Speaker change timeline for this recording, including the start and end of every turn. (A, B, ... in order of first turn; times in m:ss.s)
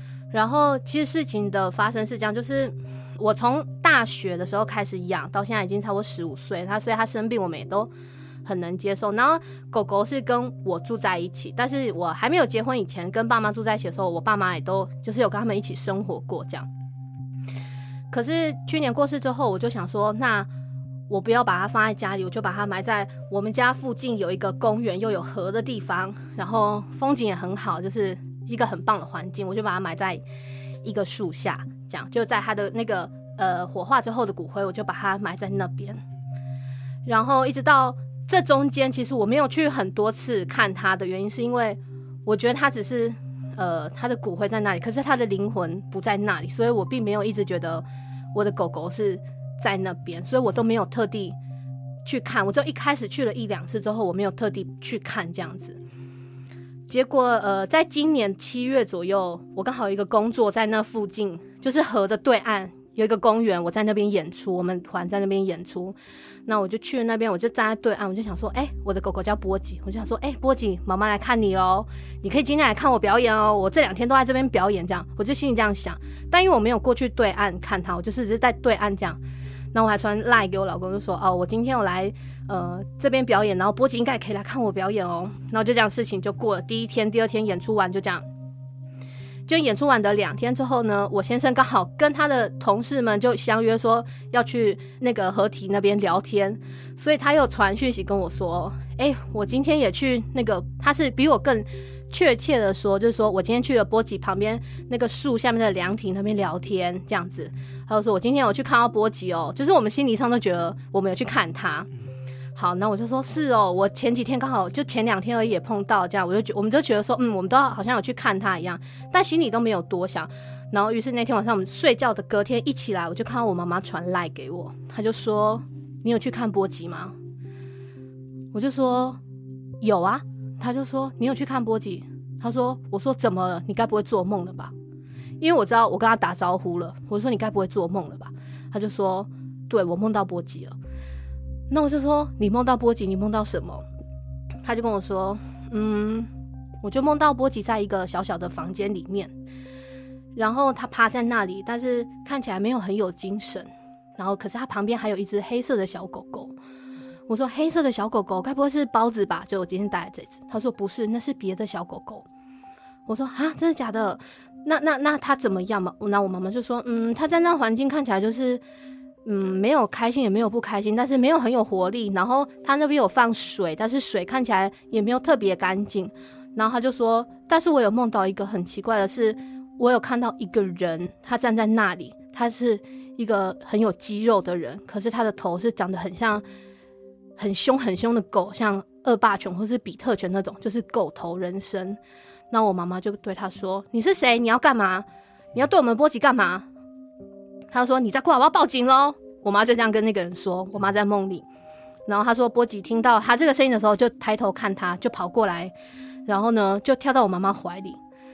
0:00.3-0:07.9 A
0:08.4-0:16.7 A
0:18.1-0:20.5 A
0:21.1-0:30.2 A
0:30.8-0:36.0 A
0:37.0-0:51.4 A
0:52.0-0:55.8 A
0:56.9-1:19.2 A
1:19.7-1:28.2 A
1:29.5-1:51.9 A
1:52.5-2:07.1 A
2:08.5-2:09.2 A
2:09.8-2:14.7 A
2:15.4-2:20.8 A
2:21.7-2:23.8 A
2:24.6-2:26.3 A
2:26.8-2:29.3 A
2:30.4-2:36.5 A
2:37.3-2:42.2 A
2:43.0-2:48.6 A
2:49.2-3:06.4 A
3:07.4-3:12.0 A
3:12.5-3:16.6 A
3:17.7-3:21.4 A
3:22.1-3:25.7 A
3:26.2-3:28.0 A